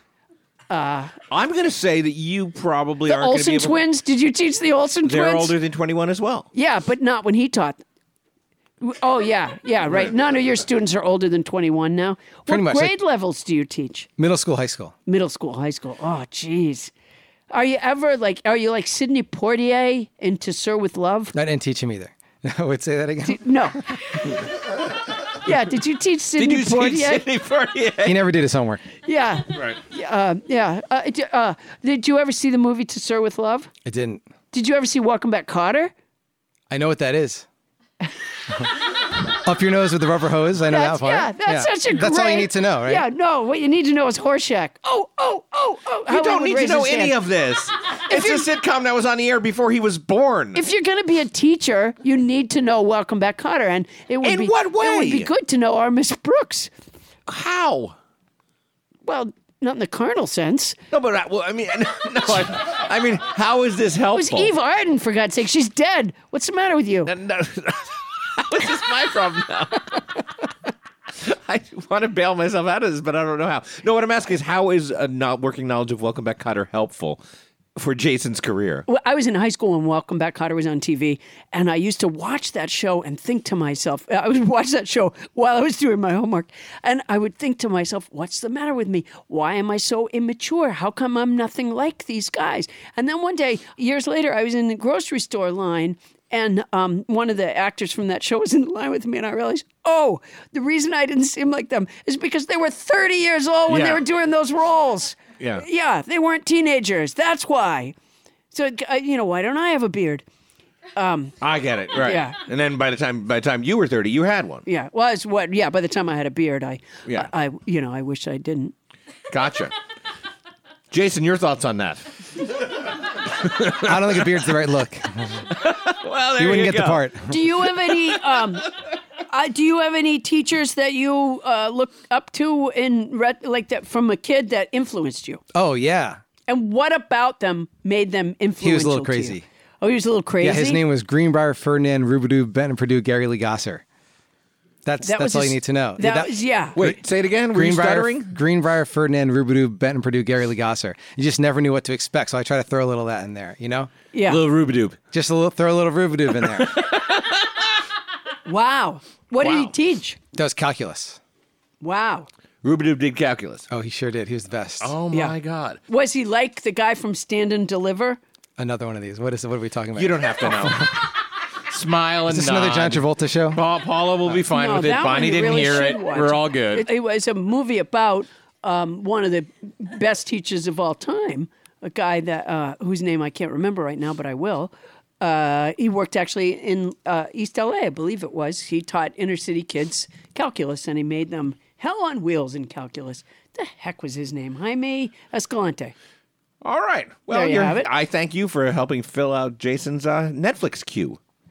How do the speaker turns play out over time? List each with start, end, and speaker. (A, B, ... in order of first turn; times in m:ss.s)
0:00.7-0:01.1 A
0:01.3-0:03.8 B
0:03.1-0:05.5 A
0:05.0-0:06.5 B
0:06.5-0:07.8 A
0:08.8-0:14.1 A
0:12.5-0:13.0 C
0:14.2-0:14.9 C
0:15.0-0:16.9 A
0:17.5-0:21.3 A
0:21.3-0:23.4 C
0:23.2-0:23.8 A
0:25.4-0:27.2 A
0:26.4-0:28.2 B
0:28.0-0:28.8 C
0:29.0-0:33.7 A
0:33.8-0:34.2 C
0:34.5-0:35.9 A
0:36.7-0:37.4 C
0:39.3-0:43.0 C
0:40.7-0:47.1 A
0:46.1-0:50.6 B
0:48.1-0:48.5 A
0:50.5-0:56.7 A
0:54.2-0:55.3 B
0:57.3-0:58.0 B
0:59.0-1:00.8 A
1:00.9-1:04.5 B
1:04.1-1:07.1 A
1:07.0-1:10.2 B
1:11.2-1:17.2 B
1:17.8-1:18.8 B
1:18.9-1:47.9 A
1:43.7-1:44.0 B
1:45.4-1:45.6 B
1:48.5-1:50.2 A
1:51.0-1:51.4 A
1:51.4-1:54.6 B
1:51.9-1:52.4 A
1:54.6-1:58.7 A
1:57.0-1:57.3 B
1:59.3-1:59.7 B
2:00.9-2:02.7 B
2:03.2-2:04.2 B
2:03.8-2:05.4 C
2:05.5-2:07.1 B
2:06.4-2:07.3 C
2:07.3-2:08.7 A
2:07.8-2:08.6 B
2:09.3-2:15.4 A
2:15.5-2:16.2 C
2:16.5-2:20.8 A
2:18.6-2:19.4 C
2:20.4-2:23.8 C
2:24.8-2:27.0 C
2:25.0-2:26.8 A
2:26.8-2:28.3 B
2:27.5-2:33.9 C
2:34.1-2:34.4 A
2:34.3-2:35.0 B
2:35.1-2:36.7 C
2:36.4-2:37.8 B
2:38.4-2:40.2 A
2:39.4-2:39.7 B
2:40.3-2:41.2 C
2:41.8-2:42.3 A
2:42.6-2:43.7 B
2:43.7-2:44.9 C
2:44.8-2:45.8 B
2:45.9-2:48.2 A
2:48.6-2:50.9 C
2:50.0-2:51.0 B
2:51.7-2:56.9 B
2:52.3-2:53.6 C
2:54.5-3:15.9 A
3:16.6-3:21.2 B
3:17.3-3:17.9 A